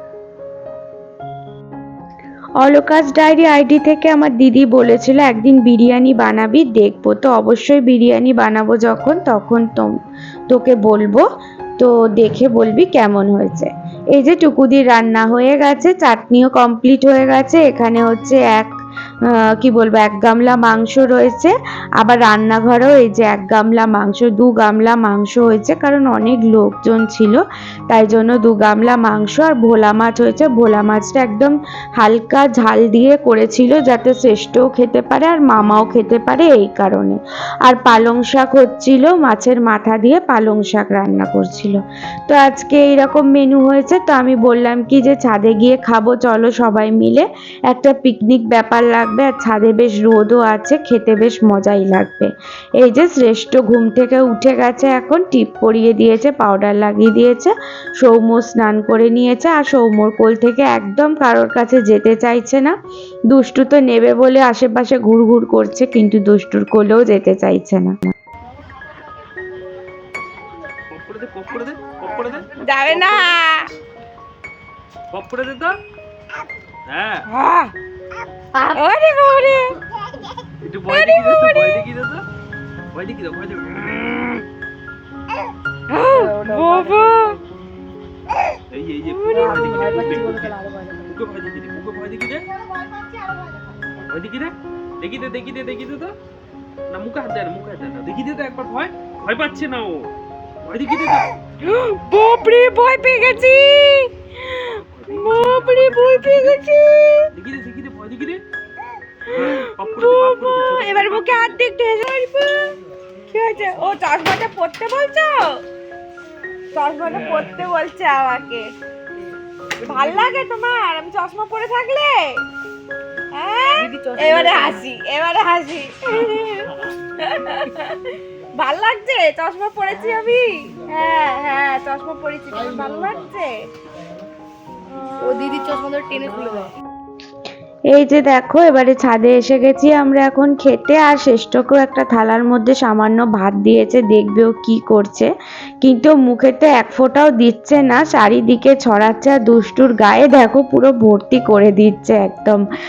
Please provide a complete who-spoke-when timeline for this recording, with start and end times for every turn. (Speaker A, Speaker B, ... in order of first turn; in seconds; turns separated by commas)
Speaker A: 2.6-10.0, Speaker A: 10.5-11.2, Speaker A: 11.8-62.8, Speaker A: 63.3-68.1, Speaker B: 70.9-73.3, Speaker C: 72.6-73.7, Speaker B: 75.1-75.8, Speaker B: 76.9-77.3, Speaker C: 77.3-77.7, Speaker C: 78.5-79.8, Speaker B: 80.6-82.2, Speaker C: 80.9-81.7, Speaker B: 82.9-84.4, Speaker C: 85.9-87.4, Speaker D: 86.2-87.3, Speaker B: 88.7-92.5, Speaker C: 89.2-89.6, Speaker D: 89.3-91.0, Speaker B: 94.0-96.1, Speaker B: 96.9-101.4, Speaker C: 101.6-107.3, Speaker B: 104.7-106.6, Speaker B: 107.3-108.4, Speaker B: 109.3-111.6, Speaker C: 109.3-112.8, Speaker C: 113.3-115.6, Speaker C: 116.7-118.7, Speaker C: 119.8-122.4, Speaker C: 123.3-133.6, Speaker D: 123.8-124.8, Speaker D: 135.2-136.7, Speaker A: 137.9-152.6